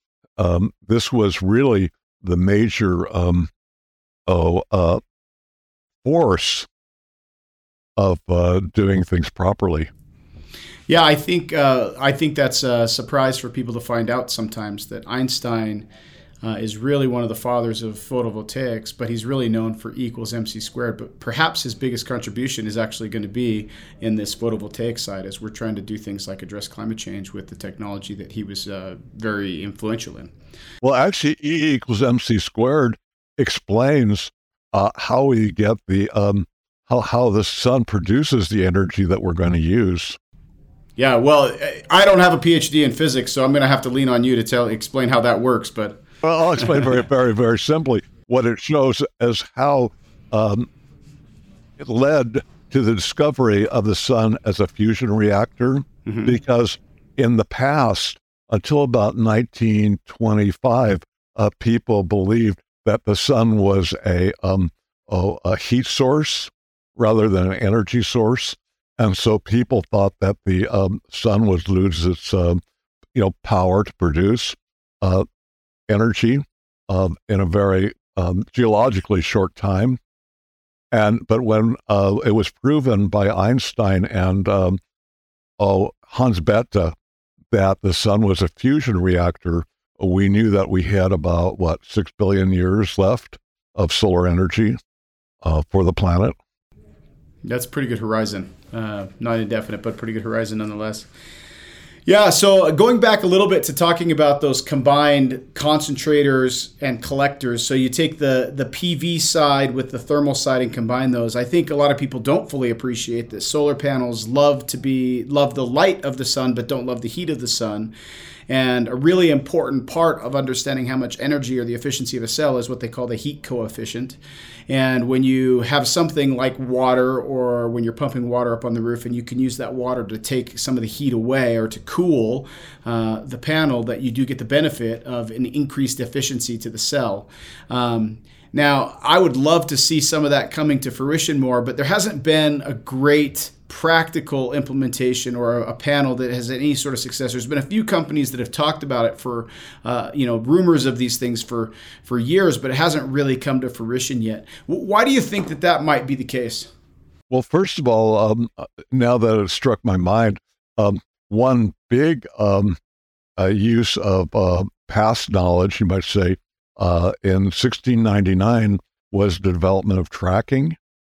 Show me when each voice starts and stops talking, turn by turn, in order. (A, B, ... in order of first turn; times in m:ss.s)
0:00.4-0:03.5 A
0:04.3-0:05.0 A
0:06.0-0:06.7 A
0:08.0-0:09.9 A
0:10.9-0:15.8 B
0:16.4-0:30.3 B
0:30.8-0:40.2 A
0:41.0-0:46.0 B
0:46.2-0:50.7 A
0:51.8-1:12.6 A
0:56.0-0:56.3 B
1:13.1-1:15.2 A
1:15.9-1:20.0 A
1:20.9-1:24.8 A
1:25.6-1:27.0 A
1:27.5-1:34.8 A
1:35.4-1:36.4 A
1:37.4-1:41.1 B
1:42.0-1:57.9 B
1:58.5-2:04.2 B
2:04.7-2:36.7 B
2:37.3-2:42.8 A
2:43.4-2:50.8 A